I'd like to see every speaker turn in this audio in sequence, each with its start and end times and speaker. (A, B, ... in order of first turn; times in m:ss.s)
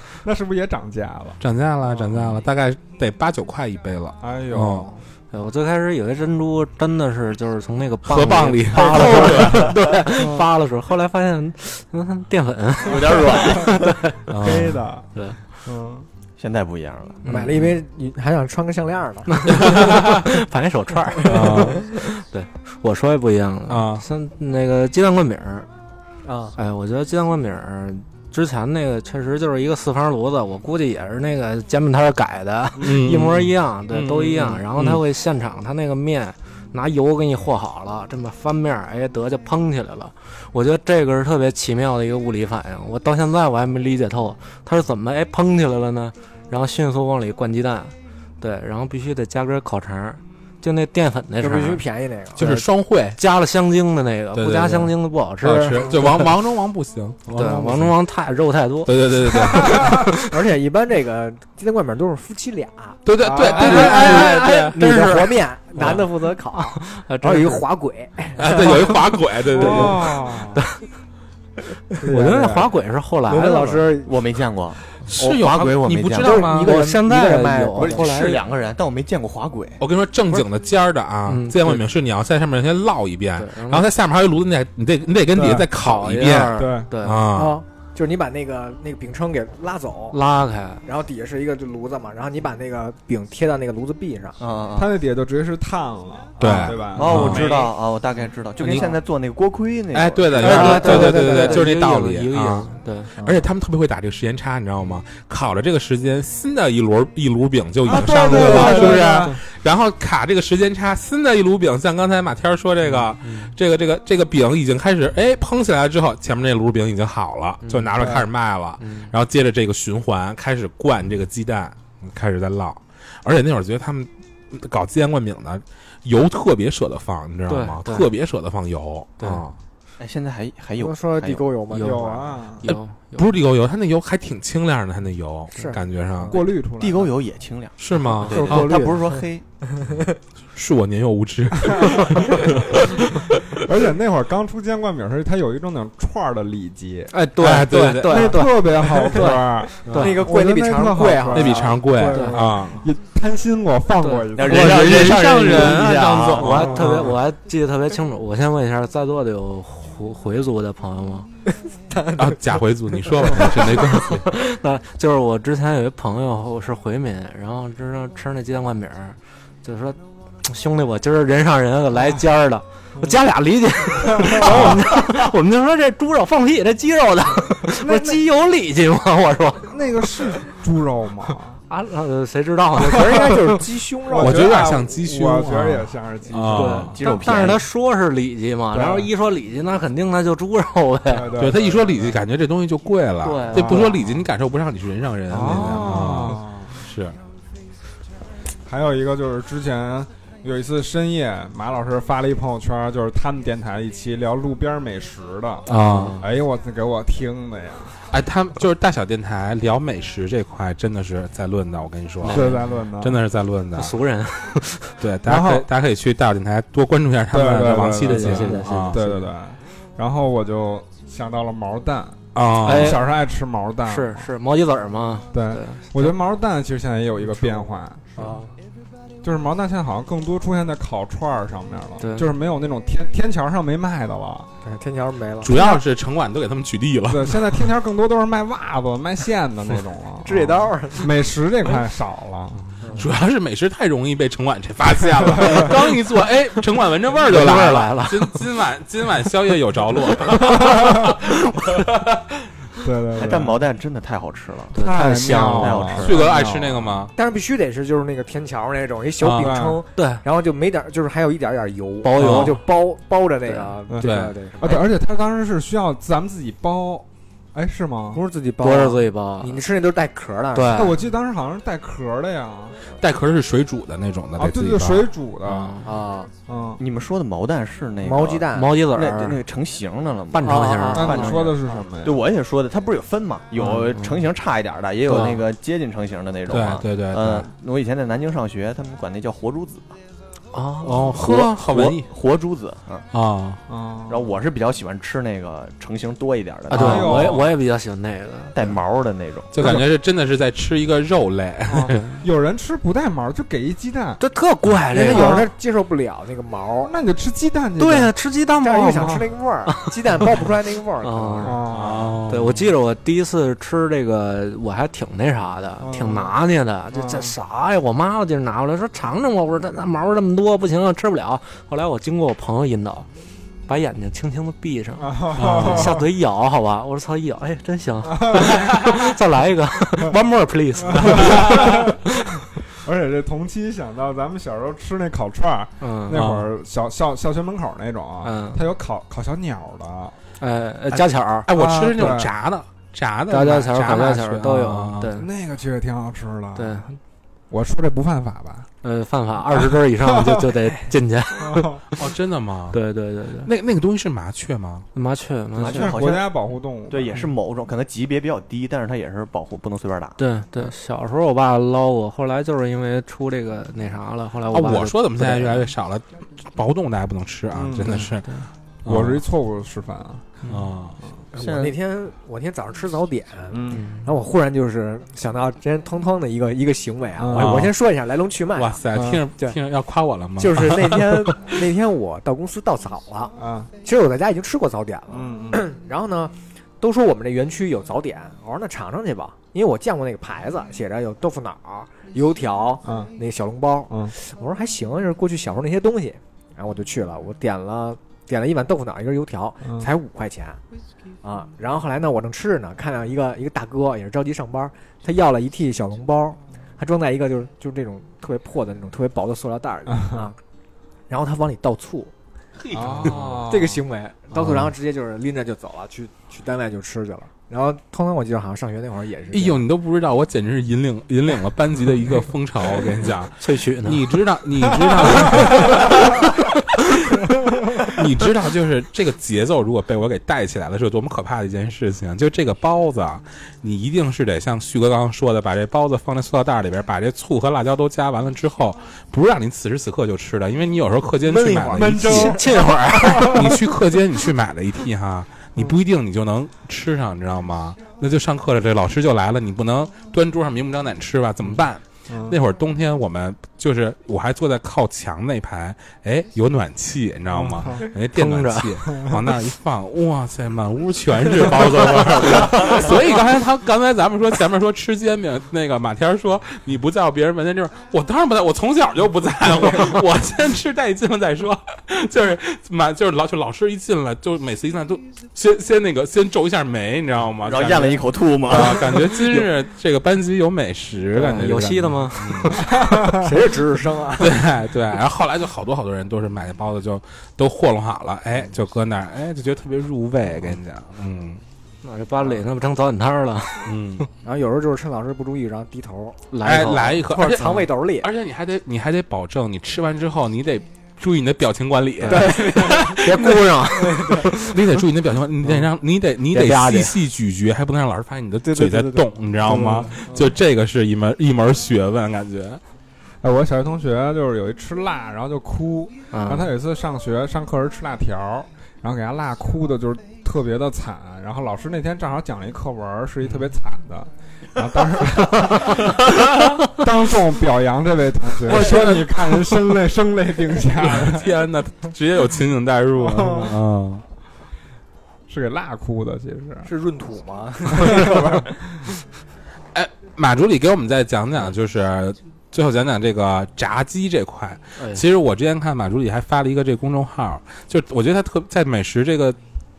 0:00.2-0:01.4 A
0:01.4-0:04.9 B
0:04.2-0:05.0 A
0:05.3-0:14.2 C
0:08.0-0:09.8 B
0:10.2-0:10.5 A
0:12.8-0:13.7 D
0:14.3-0:14.8 B
0:14.4-0:16.1 A
0:15.1-0:15.4 C
0:16.4-0:17.2 D
0:17.2-0:17.7 C
0:17.2-0:19.9 E
0:19.5-0:25.7 C
0:19.8-0:20.0 B
0:21.2-0:21.7 E
0:21.2-0:21.8 B
0:23.7-0:24.0 B
0:26.2-0:26.6 E
0:26.6-0:51.8 C
0:32.8-0:35.0 B
0:51.4-0:52.6 E
0:52.4-0:53.2 B
0:53.2-0:55.9 C
0:54.3-0:58.0 B
0:57.3-0:58.9 C
0:58.8-1:00.1 B
1:00.2-1:09.0 E
1:03.0-1:06.0 B
1:03.2-1:04.0 A
1:03.5-1:07.6 C
1:08.4-1:10.0 B
1:09.5-1:10.6 A
1:09.6-1:10.9 C
1:12.0-1:12.7 A
1:12.0-1:13.9 C
1:13.3-1:14.1 E
1:14.0-1:16.5 D
1:15.0-1:16.7 B
1:16.2-1:18.1 E
1:16.5-1:18.4 C
1:17.8-1:19.8 D
1:19.8-1:27.6 B
1:21.3-1:21.8 C
1:23.4-1:23.8 C
1:25.3-1:25.7 A
1:25.7-1:27.2 C
1:26.6-1:26.9 A
1:27.3-1:30.2 E
1:30.1-1:30.8 C
1:30.8-1:34.4 E
1:34.4-1:34.9 D
1:34.7-1:37.6 A
1:36.4-1:37.5 B
1:36.9-1:41.1 D
1:37.1-1:37.7 E
1:38.6-1:38.9 B
1:39.9-2:09.6 B
1:40.4-1:43.1 C
1:40.4-1:41.6 E
1:43.2-1:43.4 E
1:47.8-1:49.4 A
1:48.3-1:48.9 C
1:53.2-1:53.5 C
1:57.6-1:58.2 C
1:58.8-1:59.1 C
2:07.5-2:08.1 C
2:10.0-2:11.4 D
2:10.8-2:12.3 E
2:11.7-2:12.0 C
2:11.8-2:12.6 A
2:12.6-2:13.3 C
2:12.7-2:16.3 B
2:15.6-2:16.4 E
2:16.2-2:17.1 A
2:16.8-2:19.4 D
2:17.8-2:18.8 B
2:17.9-2:19.0 C
2:20.5-2:22.4 B
2:23.6-2:27.1 A
2:27.1-2:30.2 C
2:27.4-2:28.4 B
2:28.1-2:35.2 A
2:29.9-2:31.8 E
2:31.3-2:32.8 B
2:32.1-2:32.4 C
2:34.0-2:34.3 C
2:34.3-2:36.7 D
2:34.5-2:37.1 B
2:36.3-2:41.3 C
2:41.9-2:42.4 E
2:42.2-2:44.2 B
2:43.0-2:43.7 E
2:44.0-3:00.4 C
2:54.0-2:54.8 A
2:54.4-2:54.9 B
2:57.8-2:58.2 A
2:59.7-3:01.6 A
3:01.7-3:03.5 C
3:02.8-3:04.6 E
3:04.1-3:06.9 A
3:04.2-3:06.9 B
3:06.5-3:11.3 C
3:06.9-3:07.6 D
3:08.7-3:09.1 A
3:11.0-3:12.2 A
3:11.3-3:17.2 B
3:13.2-3:14.0 C
3:13.5-3:14.0 A
3:15.3-3:16.7 A
3:15.5-3:16.0 C
3:18.6-3:28.0 A
3:25.7-3:26.2 B
3:25.8-3:26.3 C
3:28.1-3:32.4 B
3:32.2-3:32.7 C
3:32.3-3:33.2 A
3:33.0-3:33.9 B
3:33.7-3:35.0 C
3:35.0-3:39.0 B
3:35.2-3:35.6 A
3:37.3-3:44.3 A
3:38.0-3:39.3 C
3:42.3-3:43.0 B
3:42.6-3:43.0 C
3:43.8-3:46.1 C
3:45.3-3:48.2 A
3:48.2-3:48.5 E
3:48.2-3:48.5 C
3:49.2-3:54.5 A
3:52.0-3:52.3 C
3:54.6-3:55.8 E
3:55.4-3:57.7 B
3:57.1-4:02.8 A
4:00.2-4:01.3 E
4:02.8-4:03.1 E
4:02.9-4:12.2 B
4:05.2-4:05.7 A
4:07.2-4:08.4 C
4:12.8-4:13.6 A
4:13.2-4:16.6 D
4:14.7-4:15.9 C
4:14.8-4:16.2 A
4:16.0-4:17.1 B
4:17.1-4:24.8 E
4:19.2-4:19.5 B
4:19.4-4:19.8 A
4:19.9-4:20.2 C
4:22.0-4:22.7 C
4:22.1-4:22.6 B
4:23.4-4:23.8 C
4:23.9-4:28.2 A
4:24.0-4:24.3 B
4:28.1-4:31.0 E
4:28.6-4:29.6 C
4:30.5-4:31.0 C
4:30.7-4:32.8 A
4:32.9-4:35.1 B
4:34.4-4:35.8 A
4:35.4-4:35.9 C
4:35.8-4:36.3 E
4:36.4-4:36.8 A
4:36.8-4:50.0 D
4:38.0-4:38.8 E
4:38.5-4:39.4 C
4:40.3-4:41.4 C
4:40.4-4:41.7 E
4:40.9-4:42.2 A
4:43.6-4:44.2 C
4:45.0-4:45.4 C
4:46.5-4:47.5 B
4:50.5-4:51.1 C
4:50.8-4:52.1 B
4:51.2-4:53.1 D
4:53.1-4:53.6 B
4:53.7-4:54.3 A
4:54.1-4:57.4 D
4:56.7-4:58.7 C
4:56.7-4:57.5 A
4:58.5-4:59.5 D
4:59.5-5:02.2 B
4:59.6-4:59.9 A
5:01.7-5:04.2 A
5:04.2-5:05.4 C
5:04.9-5:06.9 E
5:05.1-5:05.4 A
5:06.8-5:08.1 A
5:07.8-5:09.7 C
5:08.6-5:11.6 E
5:09.0-5:09.2 A
5:11.0-5:11.6 C
5:11.4-5:12.2 A
5:11.7-5:12.6 B
5:12.3-5:23.1 C
5:15.8-5:16.3 A
5:16.9-5:17.4 A
5:23.7-5:32.0 C
5:25.0-5:26.0 A
5:25.4-5:25.9 B
5:28.1-5:28.6 A
5:30.9-5:32.0 A
5:32.7-5:40.2 A
5:35.8-5:36.2 C
5:36.1-5:36.5 B
5:38.2-5:38.6 C
5:40.4-5:41.5 C
5:40.9-5:45.1 B
5:41.5-5:42.3 A
5:43.3-5:45.3 C
5:45.1-5:46.8 A
5:46.5-5:47.0 C
5:47.5-5:48.7 A
5:48.8-5:51.8 C
5:51.4-5:51.8 A
5:52.0-5:52.8 B
5:52.7-5:53.5 C
5:53.4-5:54.9 B
5:54.9-5:56.0 C
5:55.6-5:56.3 D
5:55.6-5:57.2 A
5:56.9-6:00.2 D
6:00.2-6:05.6 C
6:04.5-6:08.3 B
6:07.5-6:08.1 A
6:07.8-6:08.5 C
6:08.8-6:10.4 A
6:08.8-6:09.2 B
6:10.5-6:11.0 B
6:11.0-6:11.2 A
6:11.3-6:11.7 D
6:11.4-6:18.8 E
6:13.5-6:13.9 A
6:13.7-6:14.1 C
6:17.2-6:17.7 A
6:17.3-6:17.7 B
6:18.5-6:21.5 B
6:18.9-6:19.2 A
6:20.4-6:40.6 E
6:23.4-6:23.7 A
6:25.1-6:25.6 A
6:32.8-6:33.1 A
6:33.9-6:34.1 A
6:39.6-6:39.9 A
6:41.2-6:50.4 E
6:50.0-6:50.2 A
6:51.1-6:52.1 E
6:52.7-6:53.8 A
6:52.7-6:53.4 B
6:53.4-6:59.6 E
6:54.3-6:54.7 B
6:59.3-7:06.5 B
7:03.4-7:04.0 C
7:07.8-8:02.6 B
7:21.3-7:23.5 C
7:21.6-7:23.5 A
7:32.1-7:32.4 A
7:37.3-7:37.9 A
7:38.1-7:38.8 C
7:57.4-7:59.5 D
8:01.1-8:02.6 C
8:02.6-8:03.2 A
8:03.2-8:04.4 E
8:04.2-8:11.4 B
8:11.8-8:14.0 C
8:13.6-8:14.0 B
8:14.2-8:18.1 E
8:16.3-8:17.6 C
8:16.4-8:23.3 B
8:22.0-8:24.3 C
8:22.1-8:23.2 E
8:23.7-8:24.2 E
8:24.4-8:32.6 B
8:26.3-8:27.0 C
8:28.4-8:29.1 E
8:29.4-8:30.1 A
8:33.2-8:45.8 A
8:36.1-8:36.5 C
8:45.2-8:45.8 C
8:46.7-8:51.3 A
8:48.4-8:49.6 B
8:50.7-8:54.0 B
8:53.0-8:53.6 A
8:55.3-8:56.7 A
8:56.6-8:58.6 E
8:57.8-8:58.2 A
8:59.7-9:09.4 B
9:04.8-9:05.0 C